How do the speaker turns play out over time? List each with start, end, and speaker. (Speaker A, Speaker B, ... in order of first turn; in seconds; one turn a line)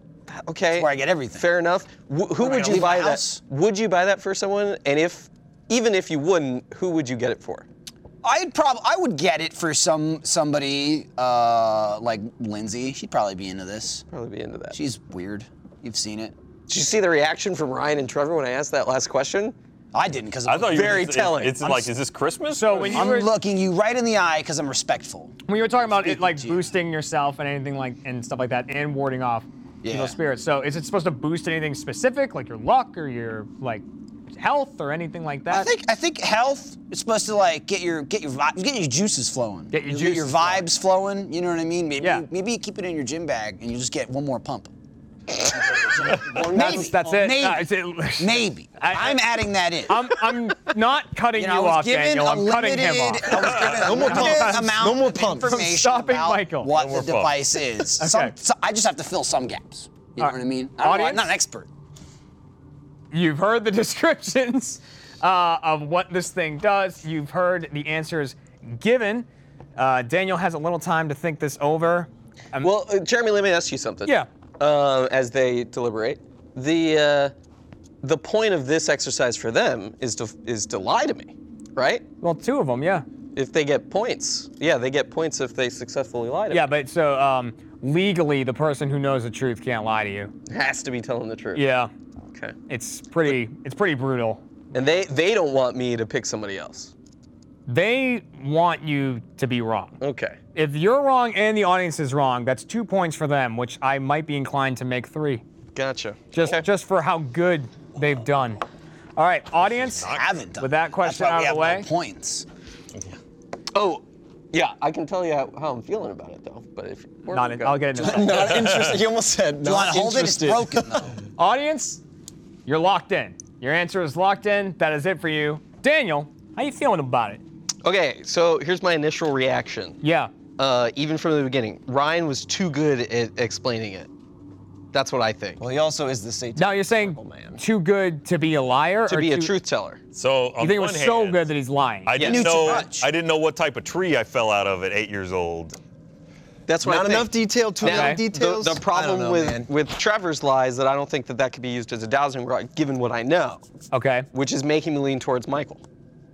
Speaker A: 0.3-7.7
Speaker B: 0.7-1.5
Speaker B: 2.4-3.4
Speaker B: 8.2-14.0
Speaker A: 14.1-14.8
Speaker B: 14.7-16.3
Speaker A: 16.7-19.5
Speaker B: 19.9-21.2
Speaker C: 20.5-22.9
Speaker A: 20.7-21.9
Speaker D: 22.5-23.3
Speaker B: 22.7-26.7
Speaker D: 25.5-33.8
Speaker B: 29.8-30.1
Speaker D: 34.4-35.7
Speaker B: 35.5-44.7
Speaker D: 39.7-40.6
Speaker D: 42.0-42.3
Speaker B: 45.6-50.1
Speaker E: 46.0-47.2
Speaker D: 46.4-49.2
Speaker D: 49.9-56.7
Speaker B: 51.3-61.7
Speaker E: 53.6-55.6
Speaker C: 56.7-57.6
Speaker D: 58.0-58.3
Speaker D: 60.2-61.3
Speaker D: 63.1-72.7
Speaker A: 72.6-77.3
Speaker A: 78.0-82.0
Speaker D: 82.2-83.0
Speaker A: 83.3-86.7
Speaker D: 86.5-90.3
Speaker A: 90.5-91.6
Speaker D: 91.5-91.9
Speaker D: 92.7-94.4
Speaker A: 94.7-96.9
Speaker D: 97.7-100.0
Speaker A: 100.0-100.4
Speaker D: 100.5-105.4
Speaker A: 105.7-106.6
Speaker D: 106.3-108.6
Speaker D: 109.2-111.9
Speaker C: 109.8-110.3
Speaker B: 110.1-112.5
Speaker A: 113.7-118.0
Speaker D: 117.3-118.5
Speaker B: 118.0-118.5
Speaker E: 118.0-121.1
Speaker C: 118.3-119.0
Speaker B: 119.6-121.2
Speaker D: 121.4-122.0
Speaker D: 122.7-127.4
Speaker A: 127.8-130.0
Speaker D: 130.0-130.3
Speaker A: 130.6-134.1
Speaker A: 134.9-135.6
Speaker E: 135.6-137.6
Speaker D: 136.6-139.5
Speaker A: 139.1-140.0
Speaker C: 140.1-141.5
Speaker D: 140.6-142.2
Speaker C: 142.1-145.8
Speaker A: 142.1-142.8
Speaker B: 142.2-143.1
Speaker A: 146.7-153.6
Speaker E: 146.8-149.7
Speaker D: 147.8-148.2
Speaker D: 153.9-154.3
Speaker A: 154.3-155.8